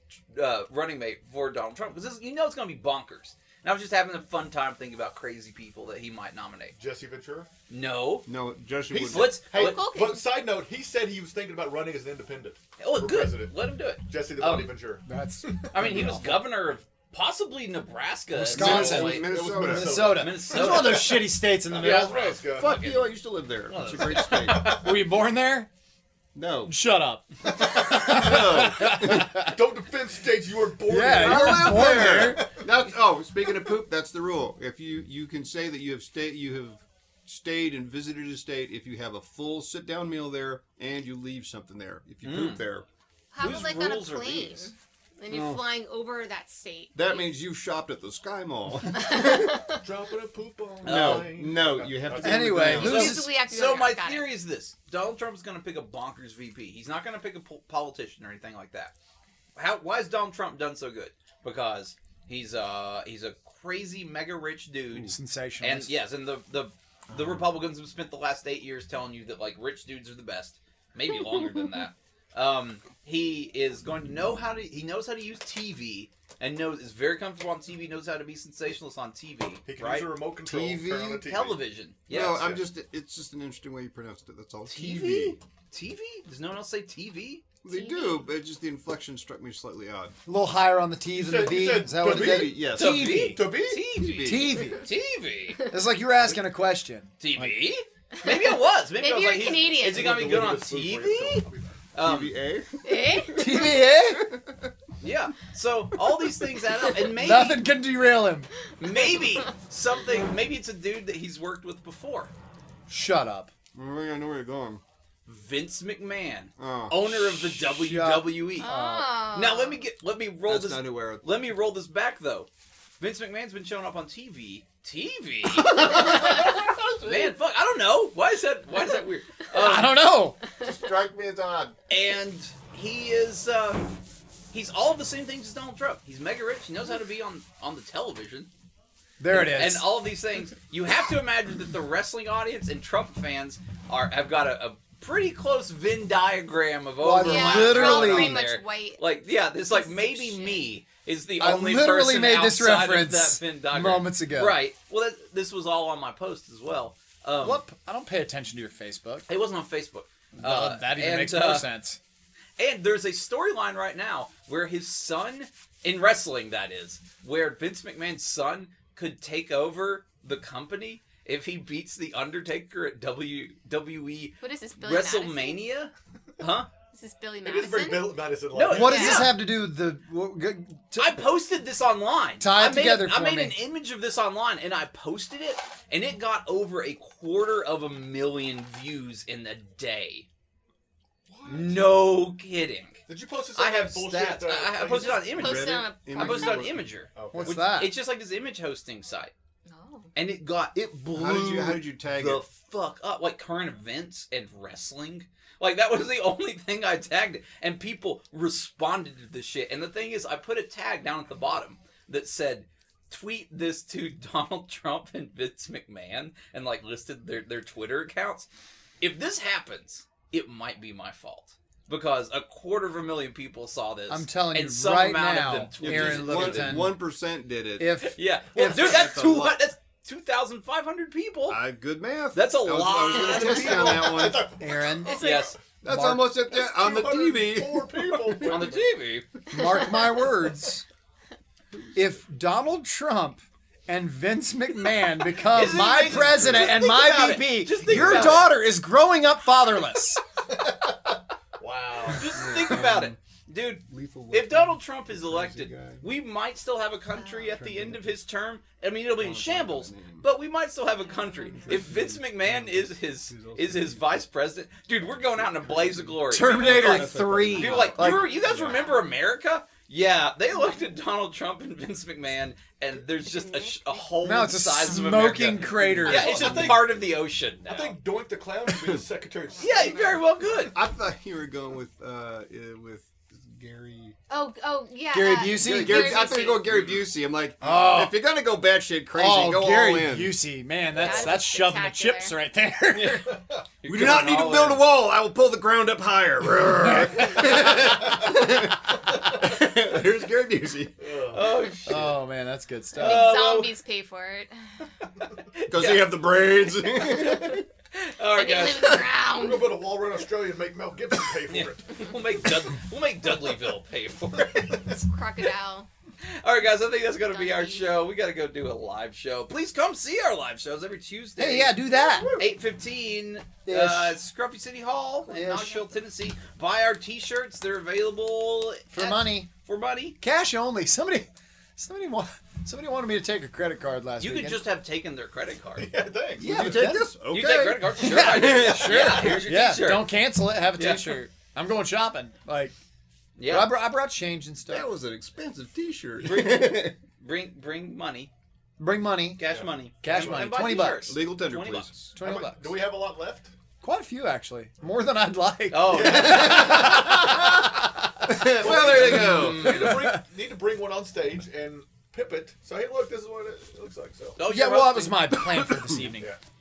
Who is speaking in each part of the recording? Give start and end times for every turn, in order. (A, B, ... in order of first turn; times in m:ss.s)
0:00.3-0:06.7 A
0:06.8-0:07.5 B
0:07.7-0:08.3 A
0:08.2-0:09.4 C
0:08.9-0:13.5 B
0:09.0-0:09.9 A
0:09.5-0:10.2 D
0:12.8-0:14.7 A
0:14.0-0:16.0 B
0:15.0-0:16.4 E
0:15.7-0:19.3 A
0:18.3-0:22.3 E
0:18.5-0:20.2 C
0:18.5-0:21.1 B
0:20.0-0:23.1 A
0:21.7-0:22.8 B
0:22.4-0:24.8 C
0:23.7-0:24.9 A
0:24.7-0:25.7 E
0:26.3-0:26.8 C
0:26.7-0:29.6 E
0:27.6-0:29.3 C
0:29.1-0:32.6 B
0:30.9-0:32.5 E
0:31.1-0:42.8 C
0:42.2-0:42.6 A
0:43.3-0:47.3 D
0:43.4-0:44.7 A
0:45.3-0:45.6 C
0:46.9-0:49.7 C
0:48.9-0:49.8 D
0:49.8-0:53.0 B
0:50.8-0:53.0 C
0:50.8-0:51.3 A
0:52.2-0:53.3 E
0:52.7-0:58.9 A
0:52.8-0:54.3 D
0:59.6-1:20.1 A
1:05.1-1:05.9 E
1:07.1-1:07.4 C
1:19.6-1:21.6 B
1:20.4-1:21.2 C
1:21.2-1:22.4 A
1:22.1-1:25.4 C
1:22.1-1:22.6 B
1:24.7-1:27.4 A
1:27.6-1:30.2 C
1:27.7-1:28.2 D
1:30.2-1:33.4 E
1:31.1-1:33.8 B
1:32.1-1:33.1 C
1:32.7-1:35.6 A
1:33.9-1:34.7 C
1:34.2-1:34.9 E
1:35.7-1:37.6 E
1:37.2-1:42.3 A
1:39.0-1:40.2 D
1:39.8-1:41.8 B
1:42.0-1:44.6 C
1:42.8-1:43.5 D
1:43.4-1:44.2 E
1:45.0-1:47.6 A
1:47.0-1:48.5 E
1:48.8-1:52.3 A
1:52.9-1:53.5 E
1:53.7-1:54.8 C
1:55.2-1:58.7 A
1:56.6-1:57.1 C
1:57.4-1:59.1 E
1:58.6-1:59.8 D
1:59.3-2:02.5 A
2:00.4-2:01.5 C
2:03.0-2:06.4 A
2:05.6-2:07.3 C
2:07.0-2:10.0 A
2:09.5-2:10.4 E
2:10.6-2:11.8 C
2:11.9-2:14.0 A
2:14.5-2:18.5 A
2:19.2-2:19.9 E
2:19.3-2:37.6 A
2:27.0-2:28.4 E
2:27.2-2:29.0 D
2:29.7-2:30.7 D
2:31.4-2:34.6 E
2:37.4-2:39.3 E
2:39.3-2:41.7 A
2:40.4-2:42.0 E
2:42.6-2:56.7 A
2:54.4-2:55.6 D
2:56.9-2:59.3 D
2:57.4-2:59.2 B
2:58.5-2:59.4 A
2:58.6-3:01.2 E
3:01.0-3:10.3 A
3:02.4-3:03.6 E
3:11.3-3:11.8 B
3:11.4-3:13.0 A
3:13.1-3:15.4 B
3:13.5-3:19.3 A
3:14.8-3:16.7 D
3:15.3-3:16.8 C
3:17.1-3:17.6 B
3:17.3-3:18.0 E
3:19.6-3:20.1 D
3:20.1-3:38.5 A
3:21.0-3:22.4 C
3:39.0-3:46.8 A
3:44.1-3:47.0 E
3:45.8-3:48.0 C
3:47.8-3:49.0 E
3:48.0-3:51.6 A
3:48.6-3:49.6 C
3:51.5-3:54.5 C
3:52.3-3:54.1 A
3:53.4-3:55.5 B
3:54.6-3:55.1 E
3:55.0-3:55.6 D
3:55.1-3:55.6 A
3:55.8-3:58.8 C
3:55.8-3:56.3 E
3:56.4-3:58.8 B
3:58.4-3:59.3 A
3:59.5-4:00.8 E
4:01.9-4:10.2 E
4:05.5-4:08.5 A
4:06.1-4:06.8 C
4:07.9-4:08.4 C
4:11.6-4:12.5 B
4:12.1-4:38.0 A
4:12.2-4:13.2 C
4:13.8-4:16.1 C
4:17.3-4:18.2 C
4:19.2-4:20.3 C
4:21.5-4:24.2 C
4:25.0-4:29.0 C
4:26.3-4:28.3 E
4:28.0-4:29.1 D
4:33.2-4:34.0 D
4:34.2-4:36.9 E
4:34.9-4:36.9 C
4:37.7-4:40.1 B
4:38.7-4:39.0 C
4:39.5-4:40.2 D
4:39.6-4:40.8 A
4:40.5-4:44.2 C
4:44.3-4:46.8 D
4:45.1-4:46.3 E
4:45.5-4:50.4 C
4:47.6-4:48.2 E
4:49.1-4:53.3 E
4:50.9-4:52.4 D
4:52.9-4:54.8 A
4:53.3-4:53.6 B
4:53.8-5:00.9 C
4:56.8-4:58.4 E
5:01.0-5:01.5 B
5:01.3-5:02.2 A
5:01.8-5:03.4 E
5:03.0-5:03.7 A
5:03.0-5:04.6 D
5:05.2-5:09.1 A
5:05.7-5:07.6 C
5:08.3-5:09.8 D
5:09.2-5:12.1 B
5:11.5-5:15.0 A
5:14.9-5:15.9 D
5:16.3-5:21.8 A
5:17.2-5:18.0 D
5:21.4-5:22.4 E
5:22.1-5:22.4 B
5:22.3-5:30.2 A
5:23.6-5:24.2 E
5:25.3-5:25.7 E
5:25.3-5:25.9 D
5:28.9-5:29.5 E
5:30.2-5:34.6 E
5:34.2-5:35.9 A
5:35.8-5:36.6 B
5:36.4-5:37.1 E
5:36.4-5:39.4 C
5:37.3-5:40.2 A
5:37.8-5:42.8 E
5:40.7-5:41.2 A
5:43.4-5:43.7 A
5:43.4-5:44.9 E
5:44.6-5:47.0 C
5:46.2-5:48.3 A
5:48.8-5:49.4 E
5:49.4-5:51.9 A
5:50.0-5:51.2 E
5:50.1-5:50.4 C
5:51.0-5:52.2 C
5:52.1-5:52.8 E
5:52.2-5:53.5 B
5:53.8-6:00.2 E
5:55.7-5:56.8 A
5:55.9-5:56.9 B
5:56.0-5:57.6 C
5:58.2-5:59.8 C
5:58.5-6:00.1 A
5:58.6-6:04.4 B
6:04.4-6:05.3 A
6:04.4-6:06.3 E